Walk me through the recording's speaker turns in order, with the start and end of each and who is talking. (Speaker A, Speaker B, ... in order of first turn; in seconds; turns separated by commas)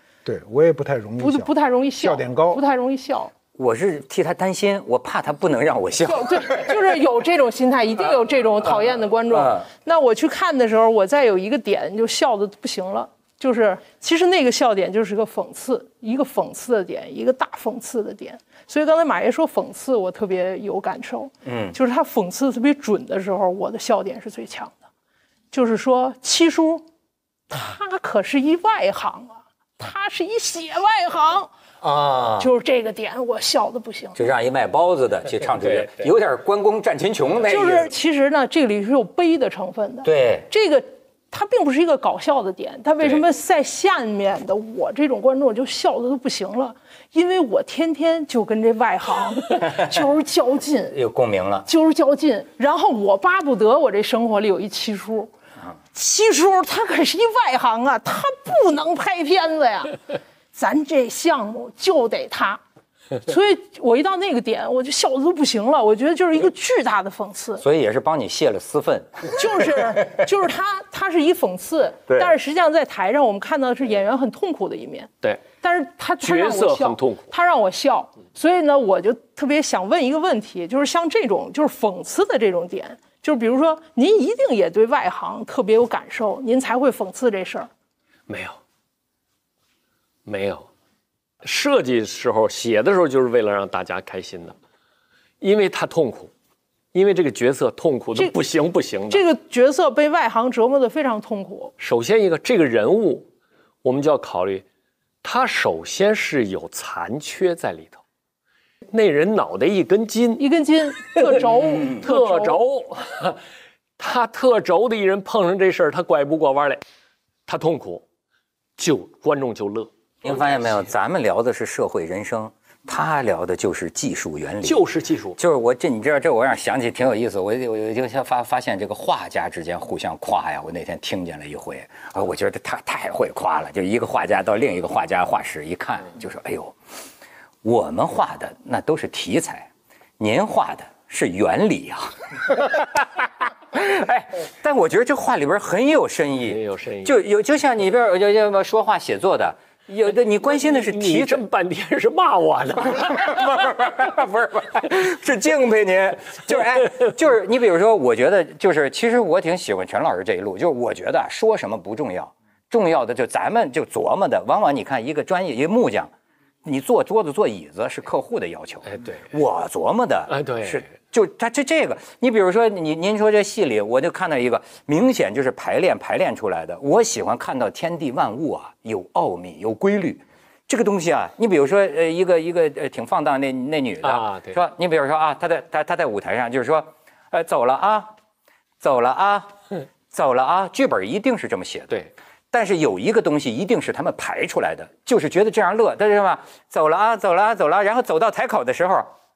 Speaker A: 0.2-2.6, Speaker B: 1.2-3.3, Speaker C: 3.6-6.8, Speaker B: 6.1-24.8, Speaker C: 9.3-9.7, Speaker C: 21.4-21.8, Speaker B: 25.5-26.9, Speaker B: 27.5-31.5, Speaker C: 31.8-32.5, Speaker B: 32.4-34.2, Speaker C: 34.1-37.9, Speaker B: 37.5-51.0, Speaker C: 40.0-40.5, Speaker C: 50.9-51.7, Speaker B: 51.7-55.3, Speaker B: 55.9-62.6, Speaker B: 63.2-67.6, Speaker C: 67.6-70.1, Speaker B: 69.4-87.7, Speaker D: 76.2-77.3, Speaker D: 88.3-88.6, Speaker D: 90.3-90.7, Speaker D: 91.4-94.6, Speaker D: 95.4-96.3, Speaker D: 96.9-99.2, Speaker B: 99.1-101.7, Speaker D: 101.8-103.3, Speaker D: 103.8-104.7, Speaker D: 105.2-108.0, Speaker D: 108.9-110.4, Speaker B: 110.4-112.6, Speaker D: 111.1-113.4, Speaker D: 114.0-116.8, Speaker D: 117.5-118.0, Speaker D: 118.8-120.8, Speaker C: 120.2-124.8, Speaker D: 124.6-125.4, Speaker C: 125.4-136.8, Speaker C: 137.6-151.4, Speaker D: 146.4-147.2, Speaker D: 150.4-153.4, Speaker C: 152.8-166.1, Speaker C: 166.6-188.1, Speaker D: 168.9-169.3, Speaker D: 170.3-170.9, Speaker D: 184.0-184.6, Speaker C: 188.8-189.5, Speaker C: 190.1-192.0, Speaker C: 192.5-199.1